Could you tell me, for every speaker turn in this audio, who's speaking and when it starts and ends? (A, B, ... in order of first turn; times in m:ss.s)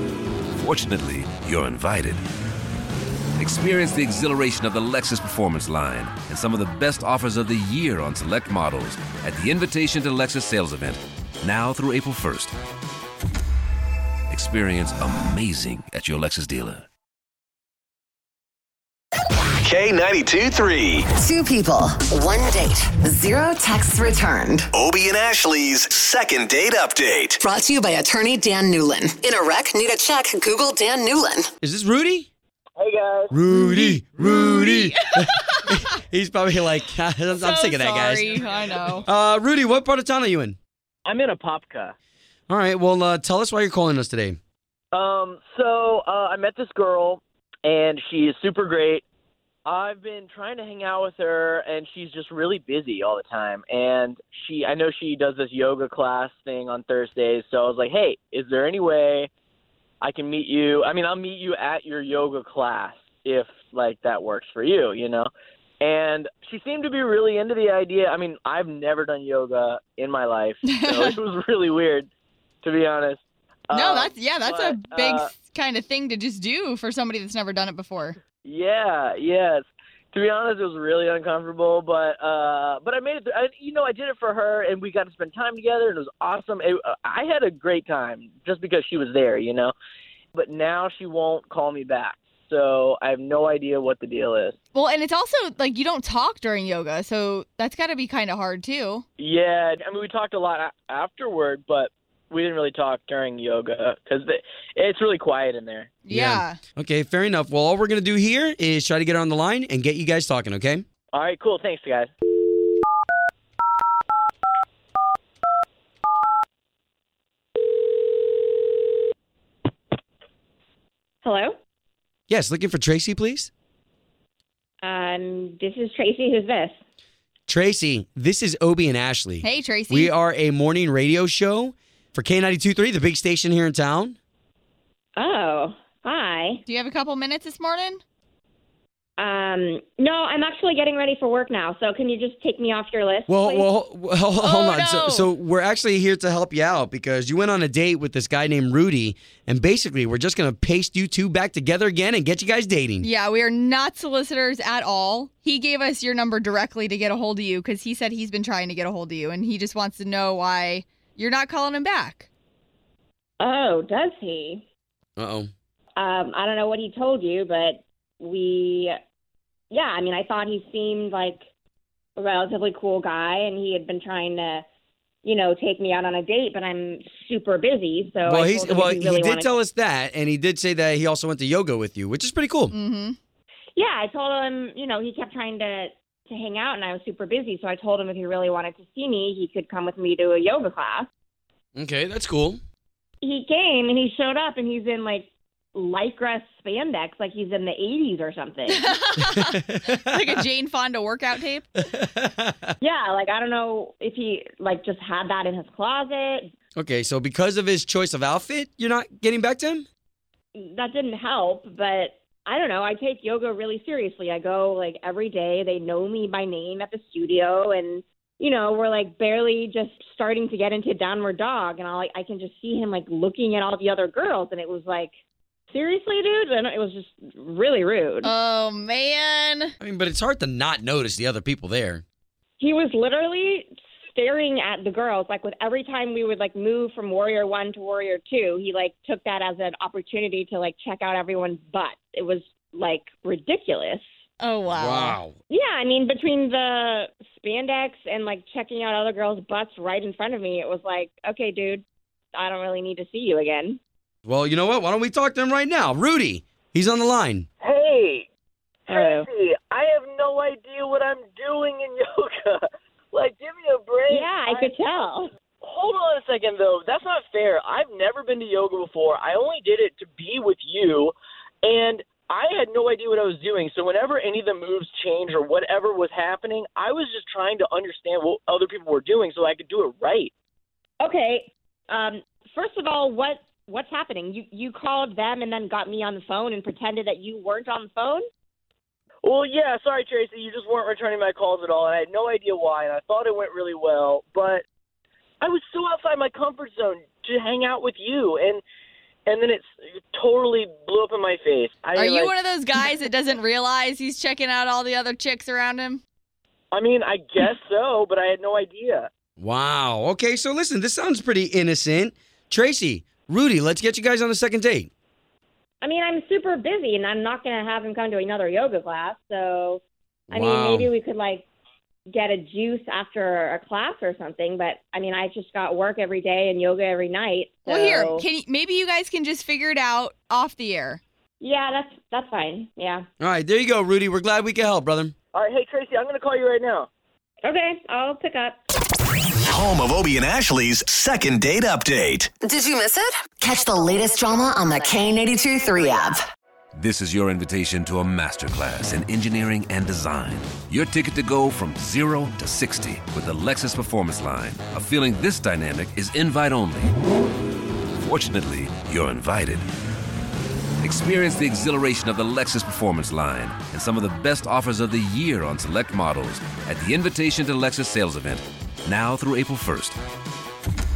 0:00.5-0:02.2 A
0:03.4-0:12.5 A
0:14.3-0:16.9 A
0:19.6-0:21.1 B
0:21.1-0:24.7 C
0:24.7-0:27.4 B
0:27.4-0:31.5 C
0:31.6-0:32.3 D
0:32.8-0:33.3 E
0:33.3-0:38.3 D
0:33.5-0:35.9 F
0:37.3-0:39.0 F
0:39.0-0:40.6 D
0:41.0-0:41.9 E
0:42.5-0:44.4 D
0:44.9-0:49.0 E
0:49.6-0:59.3 E
1:00.0-1:05.3 E
1:05.8-1:12.1 E
1:10.6-1:11.1 F
1:12.6-1:15.3 E
1:13.7-1:18.2 F
1:18.4-1:29.7 E
1:30.3-1:34.6 E
1:34.7-1:39.0 F
1:39.2-1:45.9 E
1:46.0-1:46.6 F
1:46.1-1:50.8 D
1:51.1-1:52.1 E
2:01.2-2:01.6 G
2:02.3-2:03.5 D
2:04.8-2:06.8 G
2:07.5-2:14.2 D
2:09.4-2:10.1 F
2:15.2-2:16.6 G
2:16.6-2:18.0 F
2:19.2-2:23.7 G
2:23.3-2:33.1 D
2:24.4-2:25.3 F
2:33.0-2:42.3 F
2:43.4-2:44.6 G
2:45.2-2:45.5 D
2:46.0-2:48.9 G
2:49.7-2:51.4 G
2:52.2-2:54.6 G
2:55.2-2:59.5 G
2:58.2-3:02.7 D
3:02.7-3:03.2 F
3:03.8-3:11.1 G
3:11.7-3:12.6 D
3:13.2-3:18.9 G
3:18.7-3:21.7 F
3:19.7-3:20.3 D
3:21.9-3:22.7 D
3:22.8-3:26.5 G
3:26.7-3:29.8 D
3:30.5-3:45.1 G
3:45.7-3:48.3 G
3:48.2-3:49.7 F
3:49.8-3:52.0 D
3:52.6-4:04.0 G
4:04.4-4:05.2 F
4:04.7-4:05.3 D
4:05.5-4:11.8 G
4:12.3-4:13.8 G
4:14.2-4:17.4 D
4:17.6-4:18.3 E
4:18.8-4:24.8 E
4:18.9-4:19.3 G
4:24.1-4:25.3 G
4:25.6-4:40.3 E
4:41.0-4:48.2 G
4:49.2-4:54.6 E
4:55.4-4:58.6 E
4:59.3-5:02.8 E
5:01.9-5:06.0 F
5:06.7-5:09.1 E
5:09.4-5:14.9 D
5:15.8-5:21.4 G
5:20.3-5:20.9 D
5:22.1-5:28.2 G
5:27.6-5:31.0 F
5:31.4-5:33.0 G
5:33.2-5:35.1 D
5:35.3-5:36.9 E
5:37.4-5:38.6 G
5:39.4-5:42.3 B
5:42.4-5:46.2 C
5:46.7-5:56.9 A
5:58.0-5:59.7 A
6:00.8-6:10.0 A